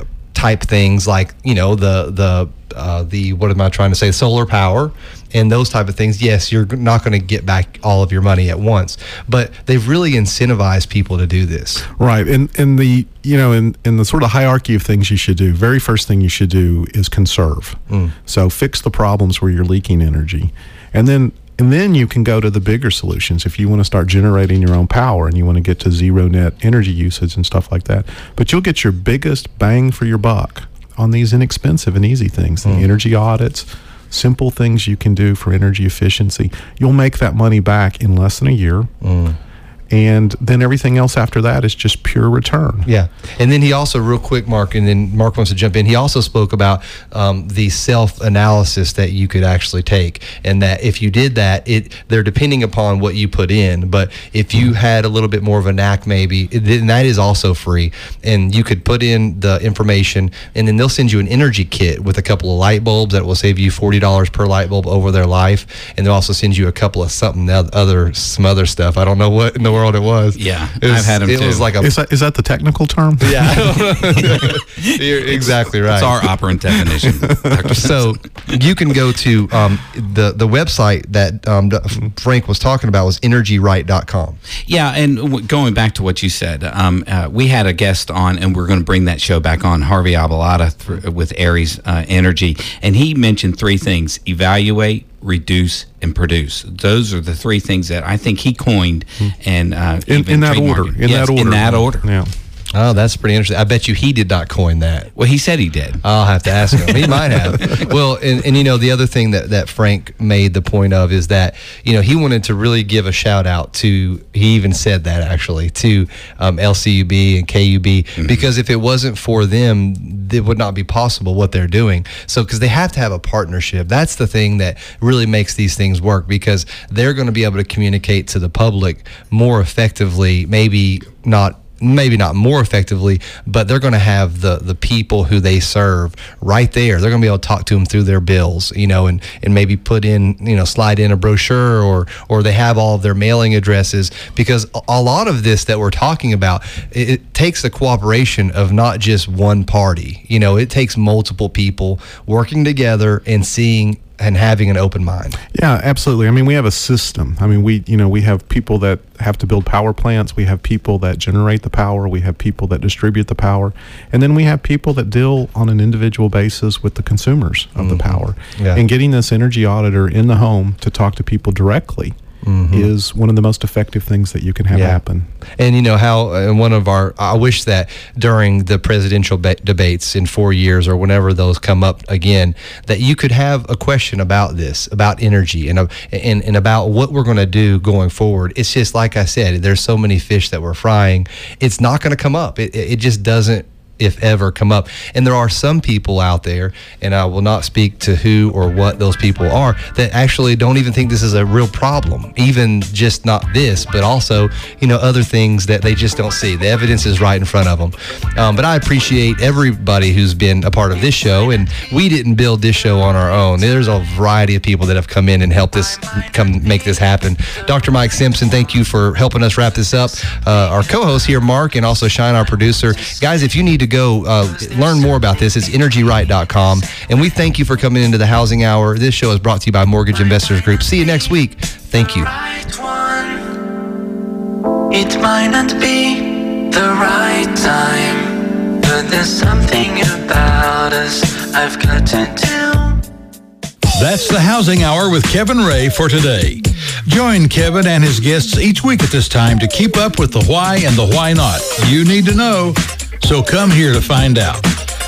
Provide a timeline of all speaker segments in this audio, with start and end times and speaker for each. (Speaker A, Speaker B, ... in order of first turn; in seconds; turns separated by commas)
Speaker A: 0.3-11.8, Speaker B: 12.0-38.9, Speaker A: 39.0-39.4, Speaker B: 39.9-42.9, Speaker A: 42.9-71.9, Speaker C: 70.3-71.7, Speaker B: 71.8-74.5, Speaker A: 73.2-76.1, Speaker C: 74.3-78.5, Speaker B: 77.2-77.5, Speaker A: 77.7-84.4, Speaker C: 84.7-102.0, Speaker B: 100.0-102.3, Speaker A: 102.7-105.1, Speaker C: 105.2-106.0, Speaker A: 106.0-155.4, Speaker C: 106.8-107.8, Speaker C: 118.2-118.4, Speaker B: 155.5-172.1, Speaker A: 167.8-168.8, Speaker A: 172.4-172.9, Speaker B: 172.7-175.3, Speaker A: 174.7-175.0, Speaker A: 175.6-232.3, Speaker D: 232.1-233.5, Speaker D: 234.9-243.0, Speaker E: 243.9-254.7